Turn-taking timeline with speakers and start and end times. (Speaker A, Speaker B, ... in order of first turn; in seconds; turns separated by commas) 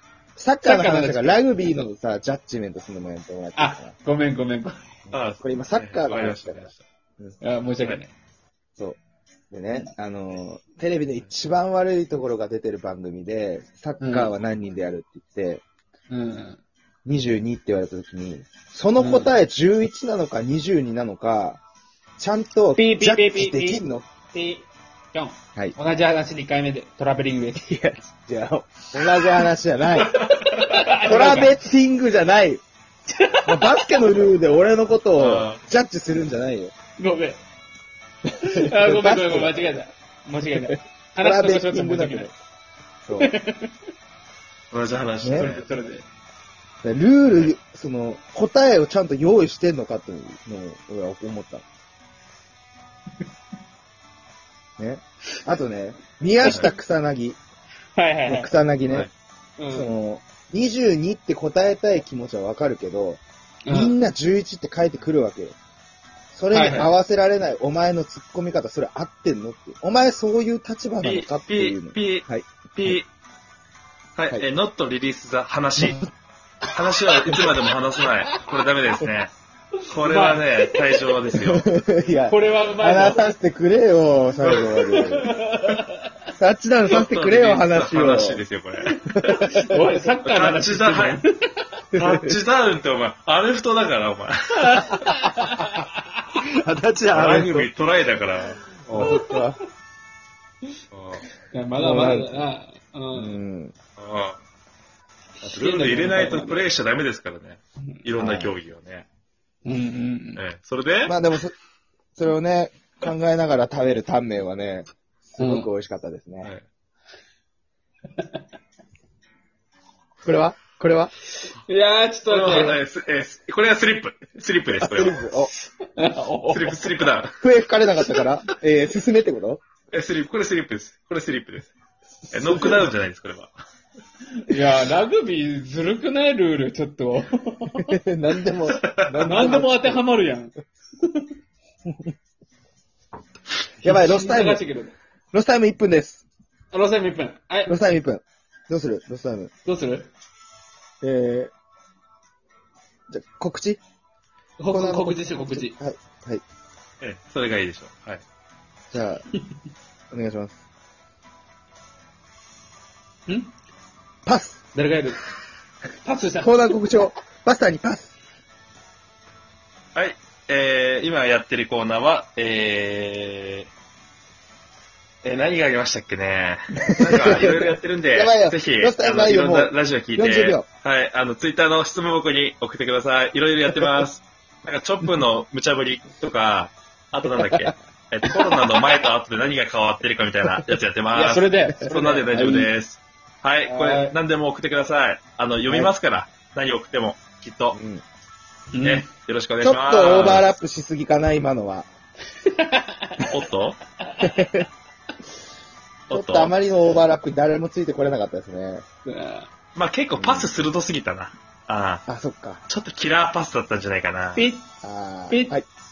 Speaker A: 0.4-4.0, Speaker B: 0.6-1.4, Speaker B: 3.6-4.8, Speaker A: 5.1-6.7, Speaker C: 5.1-6.8, Speaker B: 7.4-8.1, Speaker A: 9.5-15.6, Speaker B: 14.0-14.3, Speaker B: 16.1-16.6, Speaker A: 17.1-21.6, Speaker B: 19.0-19.3, Speaker A: 22.2-24.1, Speaker B: 22.8-27.7, Speaker A: 27.6-30.2, Speaker C: 30.0-30.8, Speaker B: 30.3-31.6, Speaker A: 31.0-32.6, Speaker B: 33.1-34.0, Speaker A: 33.5-36.7, Speaker C: 35.2-35.6, Speaker B: 37.0-37.4, Speaker B: 38.4-42.3, Speaker A: 38.5-39.7, Speaker A: 40.6-42.3, Speaker A: 43.0-43.3, Speaker B: 43.2-43.7, Speaker C: 44.7-45.7, Speaker A: 45.2-45.5, Speaker B: 45.3-46.0, Speaker A: 46.8-51.6, Speaker A: 54.8-57.4, Speaker B: 58.0-58.5, Speaker A: 58.3-59.1, Speaker B: 59.6-59.9, Speaker A: 59.7-65.6, Speaker B: 63.6-63.9, Speaker A: 66.3-73.0, Speaker B: 66.5-66.9, Speaker C: 71.0-73.1, Speaker C: 74.2-76.0, Speaker A: 75.8-76.1, Speaker C: 76.7-79.3, Speaker C: 79.9-81.7, Speaker B: 80.0-80.9, Speaker A: 81.4-85.4, Speaker B: 82.2-83.3, Speaker B: 84.5-86.0, Speaker A: 86.4-88.4, Speaker C: 86.9-89.0, Speaker A: 89.2-89.9, Speaker B: 89.2-91.7, Speaker C: 90.2-91.2, Speaker A: 91.9-92.3, Speaker C: 91.9-95.0, Speaker B: 94.7-95.9, Speaker A: 95.1-95.6, Speaker A: 96.4-97.7, Speaker C: 97.1-99.1, Speaker A: 98.9-99.6, Speaker B: 99.0-99.3, Speaker C: 100.9-101.3, Speaker B: 101.5-103.4, Speaker A: 101.8-102.5, Speaker A: 103.1-103.8, Speaker C: 104.0-104.4, Speaker B: 105.4-106.7, Speaker C: 105.4-109.1, Speaker A: 108.2-108.6, Speaker B: 109.7-110.4, Speaker C: 110.4-111.2, Speaker A: 111.1-111.5, Speaker A: 112.2-116.5, Speaker B: 115.4-115.7, Speaker A: 120.2-121.1, Speaker B: 121.4-122.8, Speaker C: 122.3-125.2, Speaker A: 124.8-125.5, Speaker B: 125.8-127.1, Speaker C: 126.5-127.4, Speaker A: 127.4-129.6, Speaker C: 129.9-131.7, Speaker C: 132.3-133.5, Speaker A: 132.3-132.9, Speaker B: 134.4-137.9, Speaker A: 137.8-140.0, Speaker C: 138.8-139.5, Speaker B: 139.2-141.3, Speaker A: 143.8-144.7, Speaker B: 143.8-144.9, Speaker A: 145.3-146.2, Speaker B: 146.7-147.8, Speaker A: 147.7-149.5, Speaker B: 149.7-150.1, Speaker A: 151.0-151.5, Speaker A: 153.1-153.8, Speaker B: 154.6-155.8, Speaker A: 154.7-156.4, Speaker C: 157.0-158.2, Speaker A: 158.9-159.2, Speaker A: 160.1-160.6, Speaker B: 163.3-163.5, Speaker A: 164.3-164.6, Speaker B: 164.7-165.2, Speaker B: 166.0-166.6, Speaker A: 166.4-168.2, Speaker C: 169.9-173.7, Speaker C: 175.2-197.8, Speaker A: 177.0-180.7, Speaker B: 191.1-192.7, Speaker A: 192.3-192.6, Speaker B: 193.6-194.2, Speaker A: 195.7-195.9, Speaker A: 197.7-198.0, Speaker B: 198.7-199.1, Speaker C: 198.8-200.5, Speaker A: 199.6-201.9, Speaker B: 202.4-203.2, Speaker C: 203.2-203.8, Speaker B: 204.1-204.4, Speaker A: 204.2-204.6, Speaker C: 206.1-206.5, Speaker A: 206.1-208.8, Speaker B: 209.1-209.5, Speaker C: 209.8-212.0, Speaker A: 210.2-210.5, Speaker A: 212.1-212.7, Speaker C: 212.7-214.4, Speaker B: 214.3-214.7, Speaker A: 214.8-215.7, Speaker B: 215.3-215.6